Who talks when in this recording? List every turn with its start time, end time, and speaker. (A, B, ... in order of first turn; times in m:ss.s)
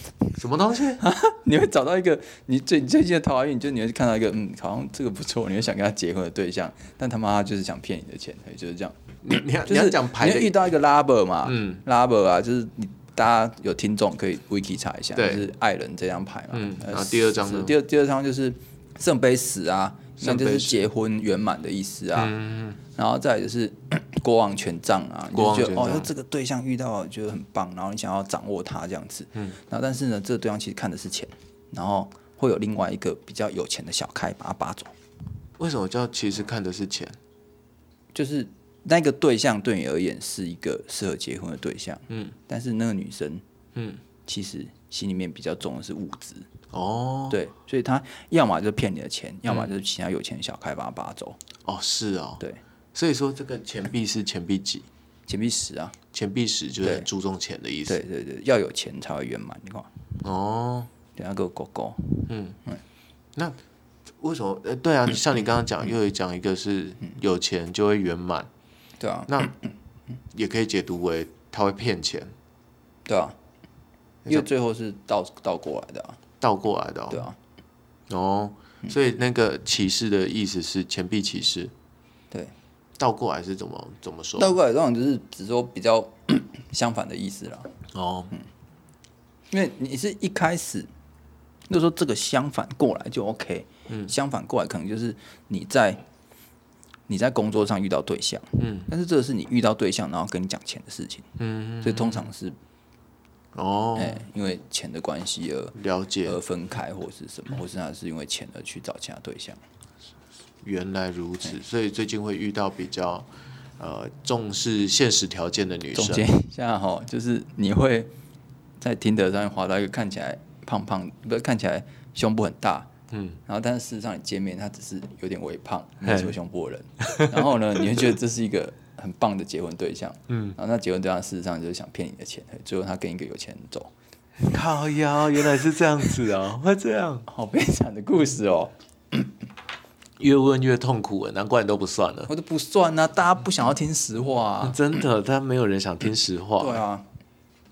0:00.4-0:01.0 A
0:01.0-0:09.0 B
0:09.2-0:10.6 A
0:09.6-0:22.3 B
0:11.4-0:11.8 A
0:15.2-0:15.4 A
0:16.5-0:17.7 A
0:20.2-0:20.8 A
0:22.2-0:22.8 A
0:23.0-0:34.9 B
0:25.3-0:26.1 A
0:35.6-0:37.2 A
0:38.1-0:43.4 B
0:42.1-0:42.3 A
0:43.7-0:44.0 A
0:44.2-0:46.5 B
0:46.7-0:47.4 A
0:47.3-0:51.4 B
0:51.6-0:52.4 A
0:52.9-0:54.9 A
0:55.3-0:56.0 B
0:56.1-0:58.0 A
0:56.8-0:57.1 B
0:57.8-0:59.9 B
1:00.2-1:00.9 A
1:01.2-1:02.8 B
1:02.3-1:02.6 A
1:04.2-1:08.5 A
1:09.0-1:09.4 B
1:09.3-1:09.5 A
1:10.3-1:12.3 A
1:13.0-1:13.4 B
1:14.3-1:16.2 B
1:16.4-1:17.2 A
1:17.1-1:17.4 B
1:18.1-1:21.7 A
1:23.0-1:24.6 A
1:24.4-1:27.7 B
1:27.9-1:28.3 A
1:29.5-1:30.9 B
1:31.7-1:36.0 B
1:37.1-1:41.3 B
1:38.6-1:38.9 A
1:41.4-1:42.3 A
1:41.8-1:42.6 B
1:43.5-1:44.2 A
1:44.0-1:49.6 B
1:45.8-1:46.4 A
1:50.6-1:53.3 A
1:53.8-1:56.3 A
1:55.9-1:58.1 B
1:58.8-2:02.9 B
2:03.1-2:03.4 A
2:03.4-2:13.9 B
2:06.0-2:06.3 A
2:07.0-2:07.4 A
2:10.3-2:10.6 A
2:14.4-2:17.2 A
2:17.3-2:19.3 B
2:20.2-2:22.3 A
2:22.3-2:24.8 B
2:24.6-2:26.8 A
2:26.6-2:27.0 B